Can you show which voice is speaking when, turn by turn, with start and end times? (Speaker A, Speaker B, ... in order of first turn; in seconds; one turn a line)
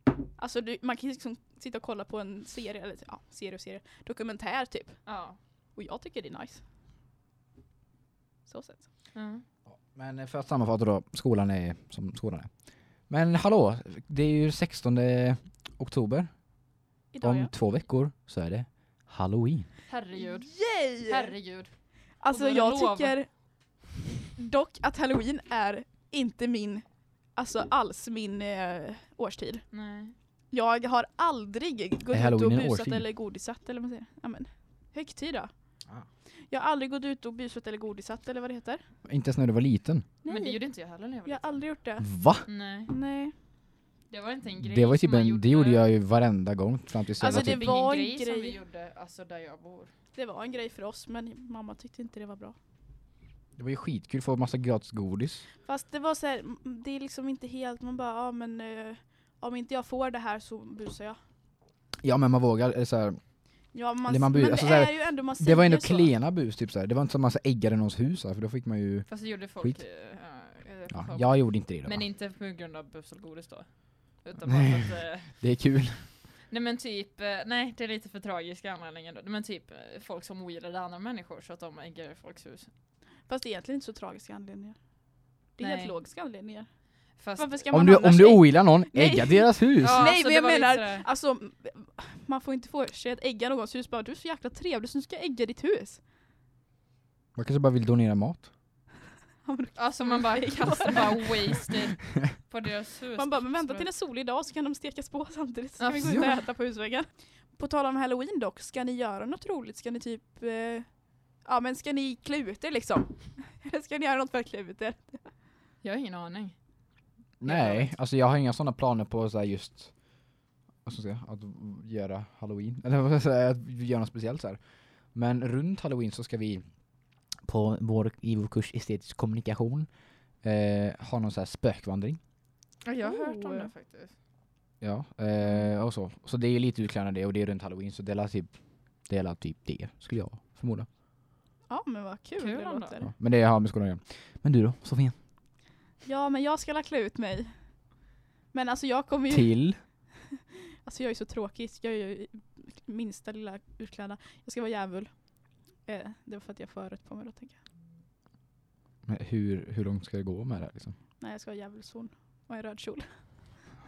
Speaker A: 0.4-6.6
Speaker B: 5.0-5.4
Speaker A: 8.5-8.9
Speaker B: 9.1-9.4
Speaker C: 9.7-16.6
Speaker A: 17.1-17.5
Speaker C: 17.2-19.7
Speaker B: 19.9-23.2
Speaker A: 20.1-21.3
Speaker A: 22.2-23.6
Speaker A: 24.4-38.9
Speaker B: 29.7-30.1
Speaker C: 32.1-33.1
Speaker C: 39.1-40.0
Speaker A: 40.2-43.3
Speaker B: 40.3-41.8
Speaker C: 42.0-42.5
Speaker B: 42.4-42.9
Speaker B: 44.1-45.9
Speaker C: 44.6-47.7
Speaker A: 47.2-48.6
Speaker B: 47.2-49.9
Speaker A: 50.1-52.6
Speaker C: 53.6-55.5
Speaker A: 55.6-61.2
Speaker C: 62.0-63.2
Speaker A: 63.7-66.1
Speaker C: 64.1-69.8
Speaker B: 69.1-75.6
Speaker C: 70.9-72.0
Speaker C: 74.5-76.1
Speaker B: 76.5-82.7
Speaker A: 83.3-96.0
Speaker B: 85.6-86.0
Speaker B: 87.2-87.7
Speaker C: 87.7-90.0
Speaker B: 89.8-91.1
Speaker C: 97.3-98.5
Speaker A: 99.4-101.8
Speaker B: 99.8-103.9
Speaker A: 103.2-115.3
Speaker B: 105.8-106.4
Speaker B: 115.8-118.0
Speaker C: 117.4-132.2
Speaker B: 132.8-134.2
Speaker A: 133.0-133.7
Speaker C: 134.8-140.9
Speaker B: 135.4-135.7
Speaker A: 141.7-143.1
Speaker B: 142.4-143.0
Speaker C: 143.0-145.2
Speaker A: 146.0-148.0
Speaker A: 148.5-157.6
Speaker C: 149.3-149.8
Speaker C: 159.1-160.9
Speaker A: 161.2-163.6